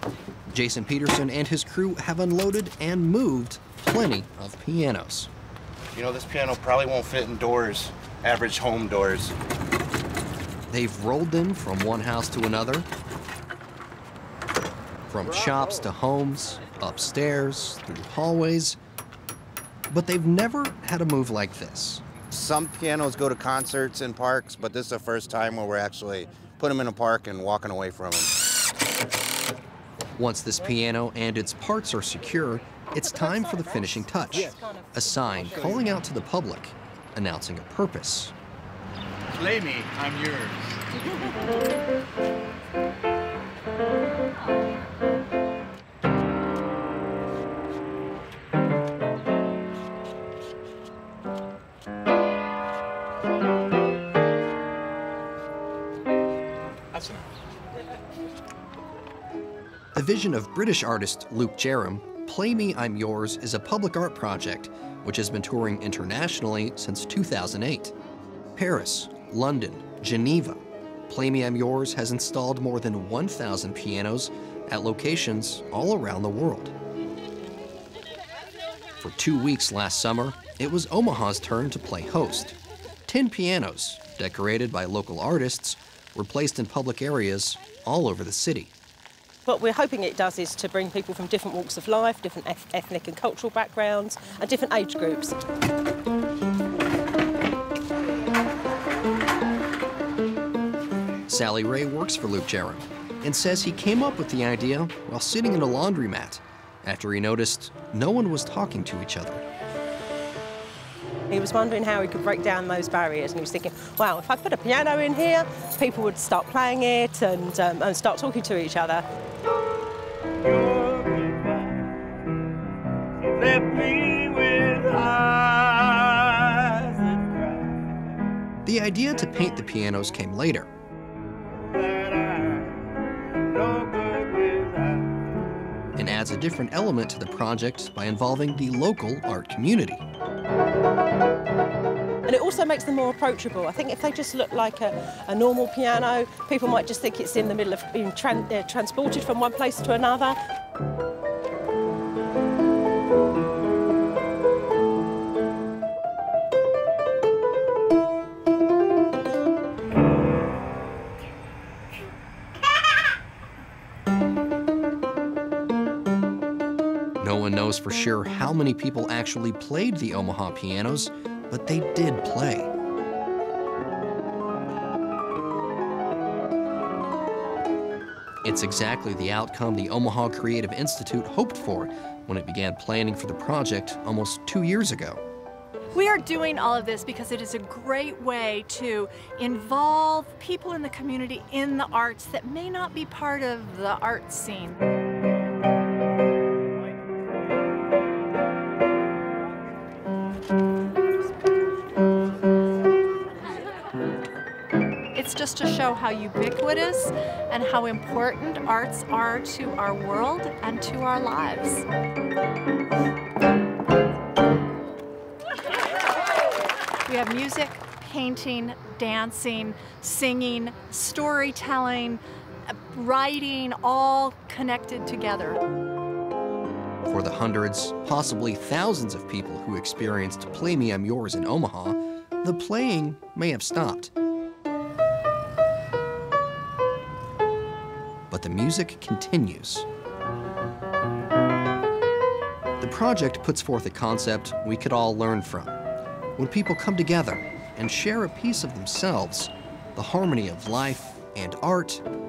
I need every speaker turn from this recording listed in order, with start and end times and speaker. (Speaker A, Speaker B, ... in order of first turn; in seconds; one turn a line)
Speaker A: 0.5-5.3
Speaker B: 5.9-9.3
Speaker A: 10.7-12.9
Speaker A: 15.1-18.8
Speaker A: 19.9-22.0
Speaker B: 22.3-28.3
Speaker A: 30.2-38.3
Speaker C: 33.0-36.0
Speaker D: 39.3-40.7
Speaker A: 60.0-67.9
Speaker A: 68.5-76.7
Speaker A: 79.0-88.7
Speaker C: 89.5-95.3
Speaker A: 101.3-109.4
Speaker C: 111.3-119.0
Speaker D: 120.4-122.2
Speaker D: 123.2-128.2
Speaker A: 128.7-130.7
Speaker D: 131.5-135.2
Speaker A: 136.0-140.0
Speaker C: 142.3-150.4
Speaker A: 167.2-172.7
Speaker A: 178.4-185.2
Speaker E: 185.9-194.8
Speaker E: 205.1-211.8
Speaker E: 217.1-225.6
Speaker A: 227.1-234.1
Speaker A: 238.3-239.9
Speaker A: 242.8-245.8
Speaker A: 246.4-252.0